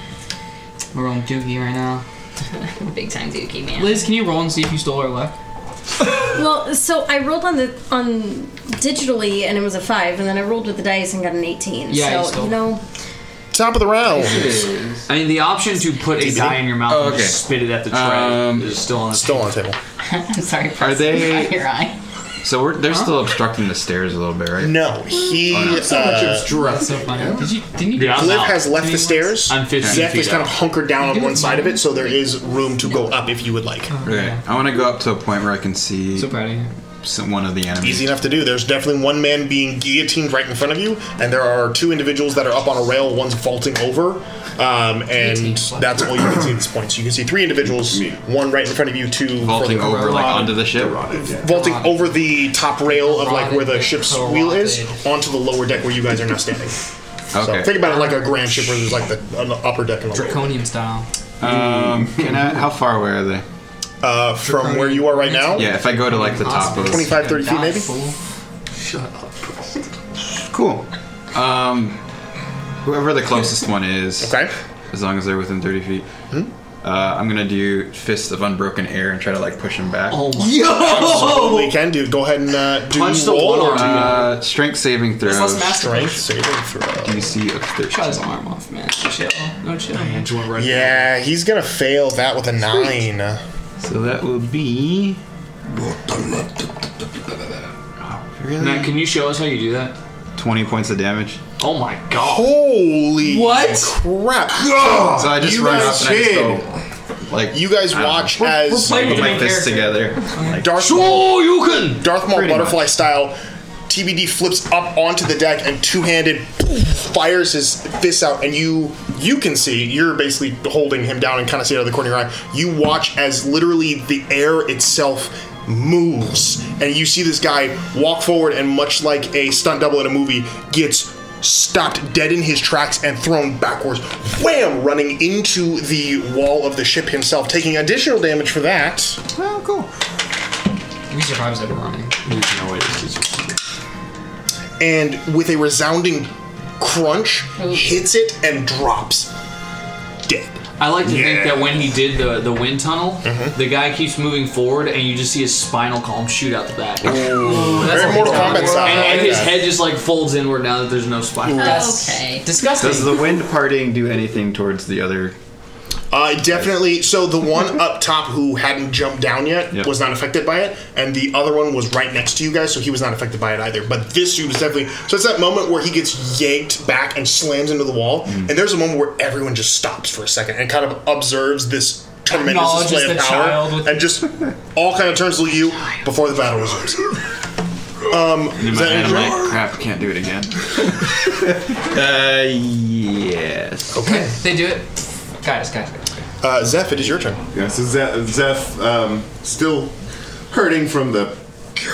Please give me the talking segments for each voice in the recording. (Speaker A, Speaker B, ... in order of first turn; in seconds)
Speaker A: 0.9-2.0, 3.8-5.3, 11.9-12.6, 26.2-29.4, 31.1-31.8, 34.0-34.4, 36.1-36.7, 45.2-46.1, 51.4-52.2, 52.9-55.0, 57.8-58.3, 60.1-61.0, 64.4-68.2, 85.2-86.2, 87.8-90.2, 103.2-103.9, 108.4-110.6, 141.1-142.1, 157.4-159.1, 161.6-163.2, 182.3-184.0, 194.0-194.9, 195.4-196.1
Speaker B: 2.6-4.0, 20.0-21.9, 161.5-162.5
Speaker C: 6.2-12.8
Speaker D: 13.5-14.5, 16.2-16.7, 19.1-19.8, 24.6-26.8, 28.0-34.0, 37.8-50.6, 51.3-56.8, 57.3-60.5, 64.0-67.9, 74.2-74.5, 80.5-84.2, 85.8-87.3, 90.5-93.4, 102.2-106.3, 107.5-109.3, 110.6-139.2, 144.8-149.3, 150.2-151.6, 153.2-153.5, 157.7-159.7, 166.1-187.2, 188.1-189.6, 193.9-194.3, 196.4-197.4
Speaker E: 14.1-15.1, 16.3-18.8, 20.8-21.5, 22.4-24.9, 25.5-26.4, 34.0-36.4, 37.0-38.1, 49.4-51.1, 57.3-57.9, 61.4-63.4, 65.6-67.2, 70.4-72.0, 72.8-74.4, 74.9-76.1, 76.8-80.4, 83.7-85.8, 87.0-88.2, 93.8-95.2, 98.0-99.0, 100.3-101.4, 105.0-106.7, 107.3-110.7, 112.3-112.9, 139.5-139.8, 162.8-165.3, 188.5-194.0
Speaker F: 15.1-19.6, 27.9-28.7, 29.5-30.6, 68.7-69.7, 80.1-81.7, 82.9-84.3, 89.9-91.2, 98.6-100.0, 101.6-102.6, 110.6-112.0, 142.2-143.5, 150.8-161.9
Speaker G: 27.0-27.5, 47.6-48.2, 50.1-51.5, 61.4-62.4, 104.5-106.7, 197.5-199.9, 200.5-201.4